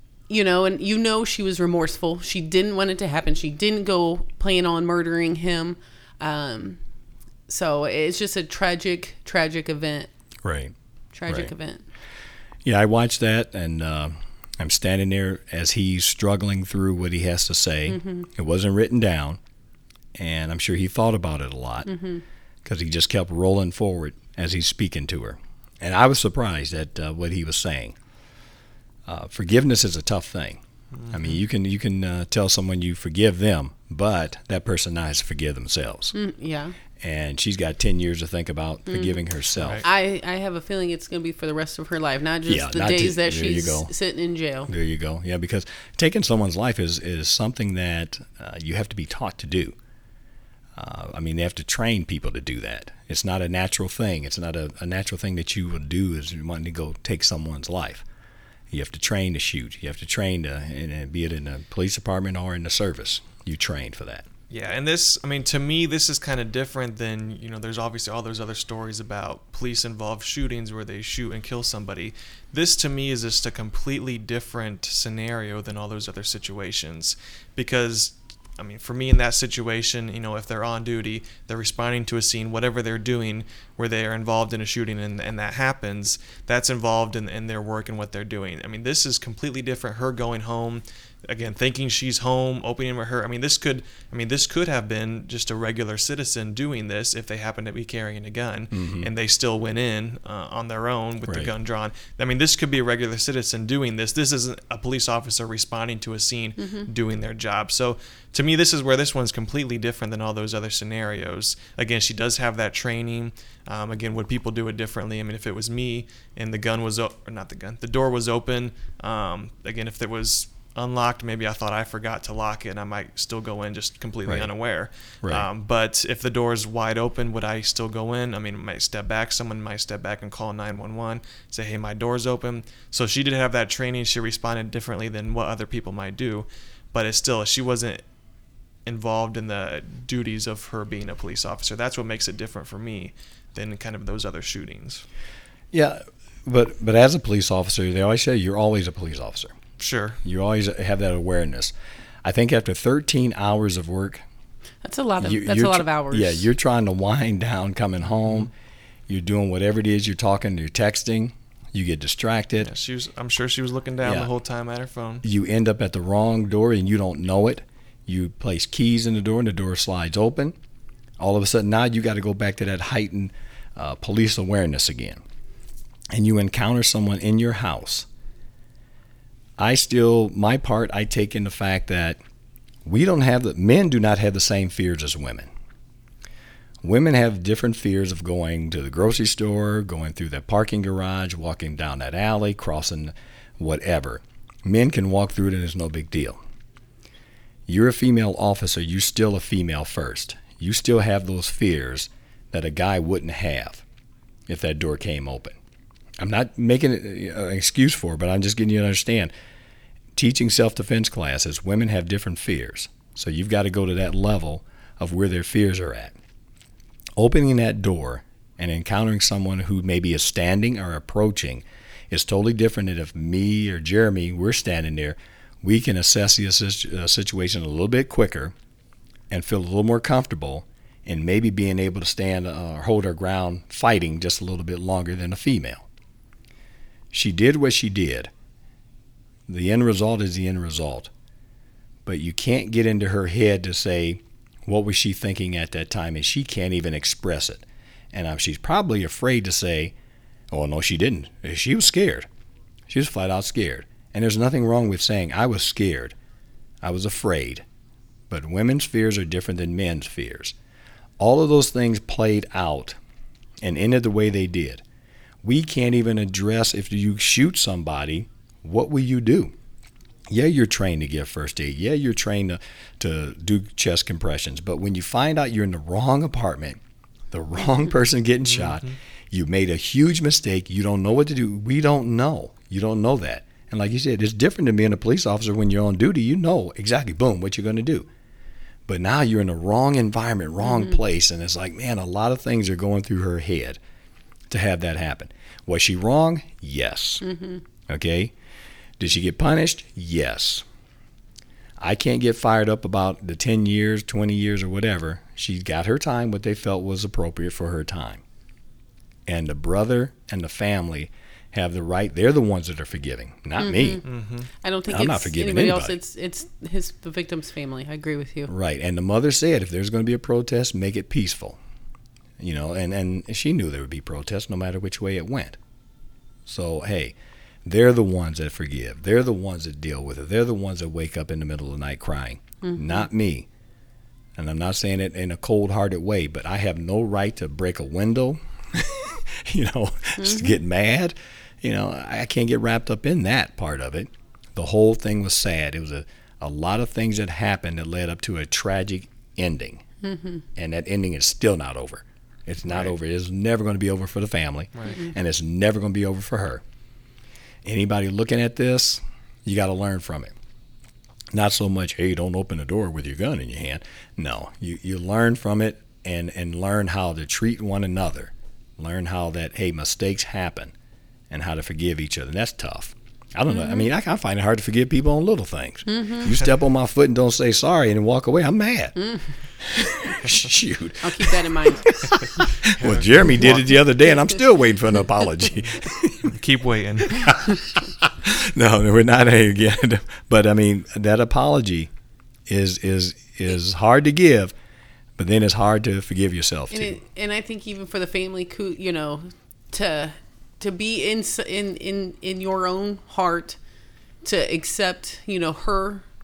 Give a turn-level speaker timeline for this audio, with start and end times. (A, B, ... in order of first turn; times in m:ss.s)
0:00.3-0:06.8 A
0:07.5-0:10.1 A
0:10.4-0:10.7 B
0:11.1-0:11.8 A
0:12.6-0:19.4 B
0:17.9-0:18.3 A
0:20.2-0:21.9 B
0:21.9-0:22.2 A
0:22.6-0:28.0 B
0:29.0-0:36.1 B
0:36.1-0:36.8 A
0:37.0-0:39.8 B
0:38.9-0:39.2 A
0:39.6-0:39.8 C
0:39.8-0:44.7 A
0:42.5-0:43.9 B
0:44.7-0:49.8 B
0:50.8-0:58.0 B
0:58.7-1:04.3 B
1:04.5-2:18.0 C
1:38.7-1:39.1 B
1:41.2-1:41.5 B
1:46.6-1:46.9 A
2:18.8-2:25.0 C
2:25.7-2:29.6 B
2:29.8-2:30.2 C
2:30.2-2:31.7 B
2:32.2-2:34.2 B
2:34.8-2:36.4 A
2:35.2-2:38.5 B
2:38.2-2:38.5 C
2:39.1-2:42.7 B
2:42.6-2:45.2 C
2:44.0-2:44.3 B
2:45.2-2:50.5 B
2:51.2-2:55.2 B
2:56.1-2:58.1 B
2:59.6-3:02.2 B
3:02.8-3:05.5 B
3:06.8-3:16.4 B
3:17.7-3:23.8 B
3:24.5-3:25.6 B
3:26.2-3:29.3 B
3:30.1-3:36.2 B
3:37.2-3:48.5 B
3:49.3-3:55.9 B
3:57.1-3:58.3 B
3:59.5-4:01.1 B
4:02.0-4:09.9 B
4:10.5-4:12.3 B
4:12.9-4:16.1 B
4:16.8-4:17.6 B
4:18.3-4:20.5 B
4:21.2-4:23.0 B
4:23.6-4:24.8 B
4:25.4-4:29.5 B
4:30.3-4:36.8 B
4:37.3-4:48.1 B
4:38.5-4:38.9 C
4:48.9-4:53.8 B
4:50.6-4:51.0 A
4:54.5-4:57.2 B
4:57.2-4:57.6 A
4:57.9-4:58.3 B
4:59.0-5:00.6 B
5:01.8-5:08.2 B
5:09.3-5:14.0 B
5:13.6-5:14.0 A
5:14.0-5:14.5 C
5:14.6-5:18.5 A
5:14.9-5:15.9 B
5:18.5-5:21.6 B
5:22.4-5:25.6 B
5:26.4-5:33.5 B
5:32.6-5:33.0 A
5:34.4-5:49.8 B
5:40.2-5:40.6 A
5:50.0-5:50.4 A
5:50.6-5:56.6 B
5:54.9-5:55.1 A
5:57.6-6:00.3 B
6:01.3-6:10.7 B
6:11.3-6:19.0 B
6:15.9-6:16.3 A
6:19.0-6:19.3 A
6:19.6-6:26.4 B
6:21.0-6:22.1 A
6:22.6-6:23.8 C
6:26.2-6:27.4 C
6:27.0-6:31.9 B
6:32.5-6:34.5 B
6:35.2-6:37.0 B
6:36.7-6:43.6 A
6:44.2-6:46.0 A